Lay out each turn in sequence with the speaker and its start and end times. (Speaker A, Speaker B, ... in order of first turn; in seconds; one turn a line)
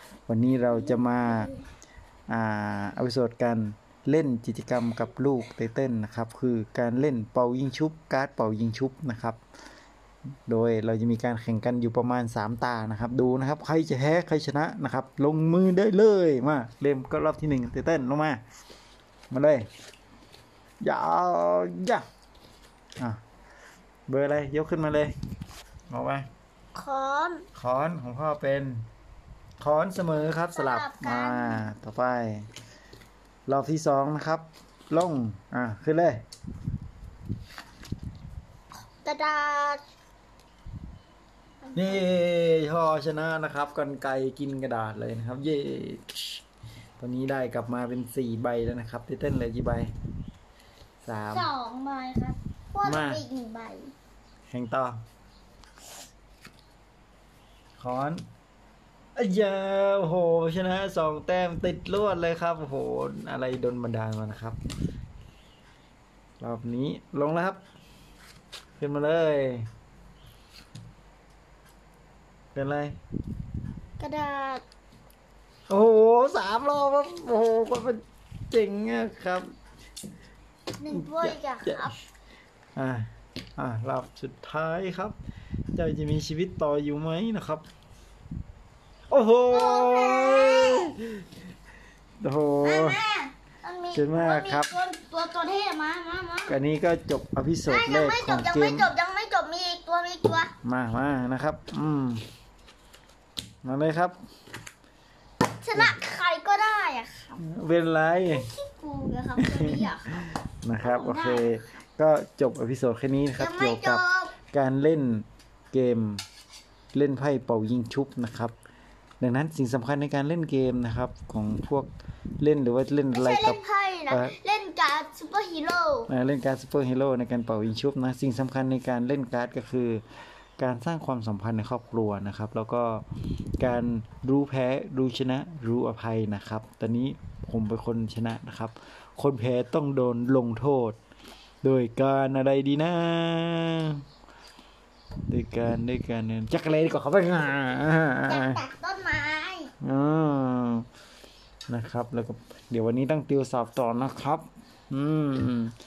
Speaker A: 0.3-1.5
Speaker B: 0.7-1.6
Speaker A: 2.3-9.4
Speaker A: 10.5-18.4
Speaker A: 19.3-19.7
Speaker A: 20.8-22.0
Speaker A: 24.1-25.1
Speaker A: 25.9-26.3
Speaker B: 26.7-27.4
Speaker A: 27.5-28.9
Speaker A: 29.6-32.5
Speaker B: 30.5-31.7
Speaker A: 33.5-36.2
Speaker B: 38.9-39.8
Speaker B: 41.6-42.0
Speaker A: 41.7-46.4
Speaker A: 47.0-49.9
Speaker A: 51.0-51.5
Speaker B: 51.3-53.9
Speaker A: 52.8-53.2
Speaker A: 54.5-55.0
Speaker A: 57.8-58.2
Speaker A: 59.1-64.6
Speaker A: 66.4-67.6
Speaker A: 68.8-69.7
Speaker A: 72.5-73.0
Speaker B: 74.0-74.6
Speaker A: 75.7-79.5
Speaker B: 80.8-82.0
Speaker A: 80.9-81.9
Speaker A: 82.8-85.2
Speaker A: 85.7-87.6
Speaker A: 89.1-91.2
Speaker B: 89.5-90.9
Speaker A: 92.2-93.0
Speaker B: 92.6-96.6
Speaker A: 93.9-94.7
Speaker A: 96.5-98.9
Speaker B: 97.7-100.5
Speaker A: 100.6-102.2
Speaker A: 103.6-104.2
Speaker B: 105.6-107.4
Speaker A: 107.4-108.5
Speaker B: 108.3-111.6
Speaker A: 109.4-116.2
Speaker B: 113.4-114.3
Speaker A: 116.9-118.5
Speaker A: 119.2-121.9
Speaker A: 122.4-124.3
Speaker B: 123.1-126.1
Speaker A: 126.1-130.0
Speaker A: 130.6-133.0
Speaker A: 133.6-141.0
Speaker A: 141.6-144.0
Speaker A: 145.3-148.6
Speaker B: 148.2-149.7
Speaker A: 149.8-150.8
Speaker A: 151.7-155.7